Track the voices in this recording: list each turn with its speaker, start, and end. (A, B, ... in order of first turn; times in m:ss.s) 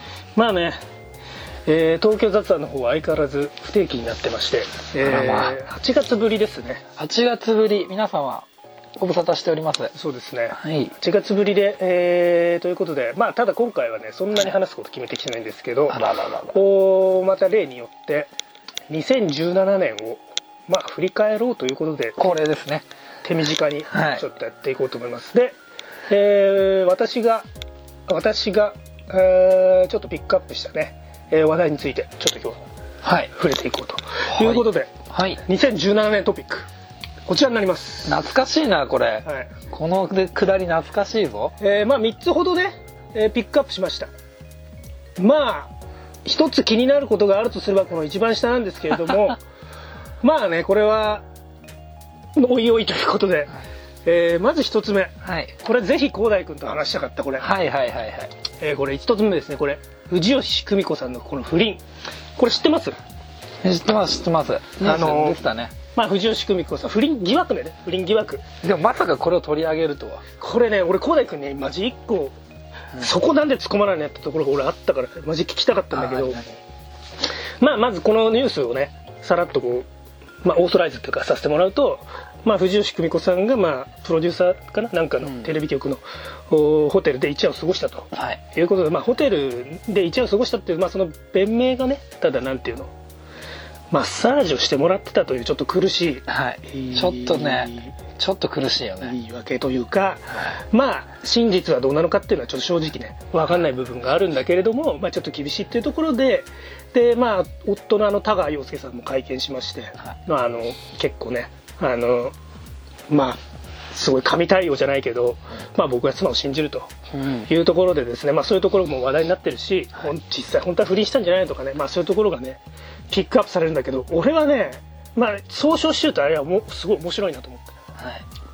0:00.4-0:00.8 A
0:01.7-0:06.8 A
0:05.0-0:05.6 B
0:07.0-0:09.9 B
0:09.9-0:18.3 A
0:10.6-0:10.9 B
0:15.9-0:16.6 B
0:18.9-0:22.3 A
0:22.2-0:22.9 B
0:23.2-0:27.5 A
0:23.9-0:24.2 B
0:28.1-0:32.6 A
0:33.0-0:33.3 B
0:33.3-0:36.7 A
0:34.3-0:35.4 B
0:37.3-0:38.2 A
0:38.1-0:41.6 B
0:39.3-0:39.5 A
0:41.6-0:44.1 A
0:45.2-0:45.7 A
0:46.2-0:49.4 A
0:50.2-0:51.2 A
0:52.4-0:57.5 A
0:55.2-0:55.6 B
0:57.4-0:58.3 B
0:58.6-1:01.8 A
1:02.4-1:03.0 A
1:03.6-1:05.8 B
1:04.8-1:05.4 A
1:06.0-1:08.4 A
1:08.6-1:10.2 B
1:10.4-1:12.4 A
1:13.0-1:16.5 A
1:15.9-1:16.5 B
1:17.6-1:19.9 A
1:20.4-1:32.9 A
1:28.1-1:28.4 B
1:33.9-1:38.0 A
1:36.3-1:39.2 B
1:39.0-1:52.4 A
1:53.1-1:53.4 A
1:53.9-2:07.7 A
1:57.1-1:57.5 B
2:08.0-2:08.2 B